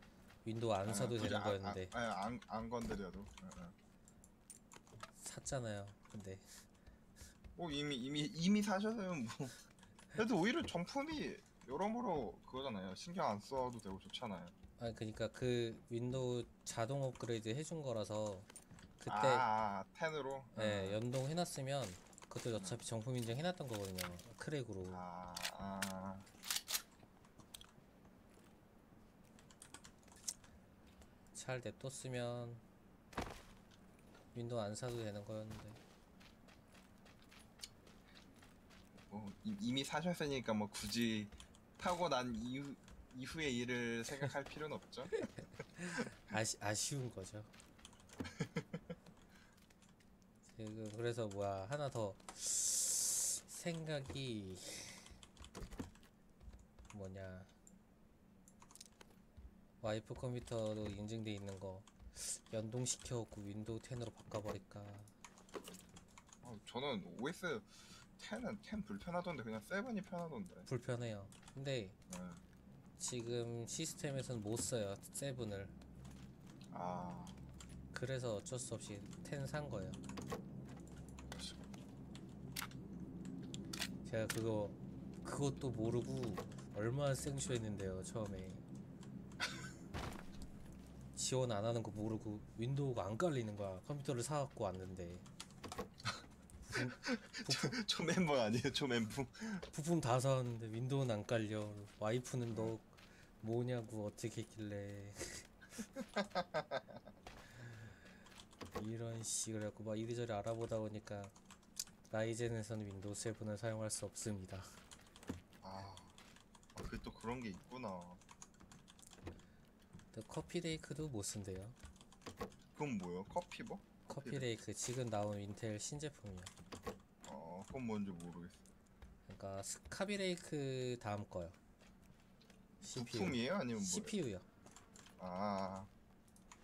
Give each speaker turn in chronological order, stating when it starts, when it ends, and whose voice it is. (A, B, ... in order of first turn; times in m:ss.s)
0:00.4-0:01.9 A
0:00.8-0:03.8 B
0:05.2-0:06.6 A
0:07.6-0:09.6 B
0:10.2-0:14.5 B
0:14.8-0:18.5 A
0:19.0-0:19.5 A
0:19.1-0:21.0 B
0:20.6-0:25.0 A
0:24.9-0:26.3 B
0:31.3-0:32.6 A
0:34.3-0:35.8 A
0:39.0-0:45.3 B
0:45.2-0:47.5 A
0:48.3-0:48.9 B
0:50.6-0:55.1 A
0:56.9-0:57.5 A
0:59.8-1:05.1 A
1:06.4-1:10.7 B
1:10.7-1:12.0 A
1:12.1-1:12.4 B
1:13.0-1:15.8 A
1:16.7-1:17.4 B
1:17.9-1:20.0 A
1:21.3-1:21.8 B
1:24.0-1:28.6 A
1:31.2-1:35.2 A
1:36.7-1:37.8 A
1:36.7-1:39.7 B
1:39.7-1:45.5 A
1:45.9-1:47.0 B
1:48.8-1:51.3 A
1:52.1-1:54.8 A
1:55.6-1:56.2 B
1:56.8-1:58.2 B
2:00.1-2:01.8 A
2:02.8-2:04.5 B
2:04.1-2:06.5 A
2:07.2-2:08.6 B
2:09.3-2:11.6 A
2:12.8-2:14.5 A
2:12.9-2:14.1 B
2:15.2-2:15.9 B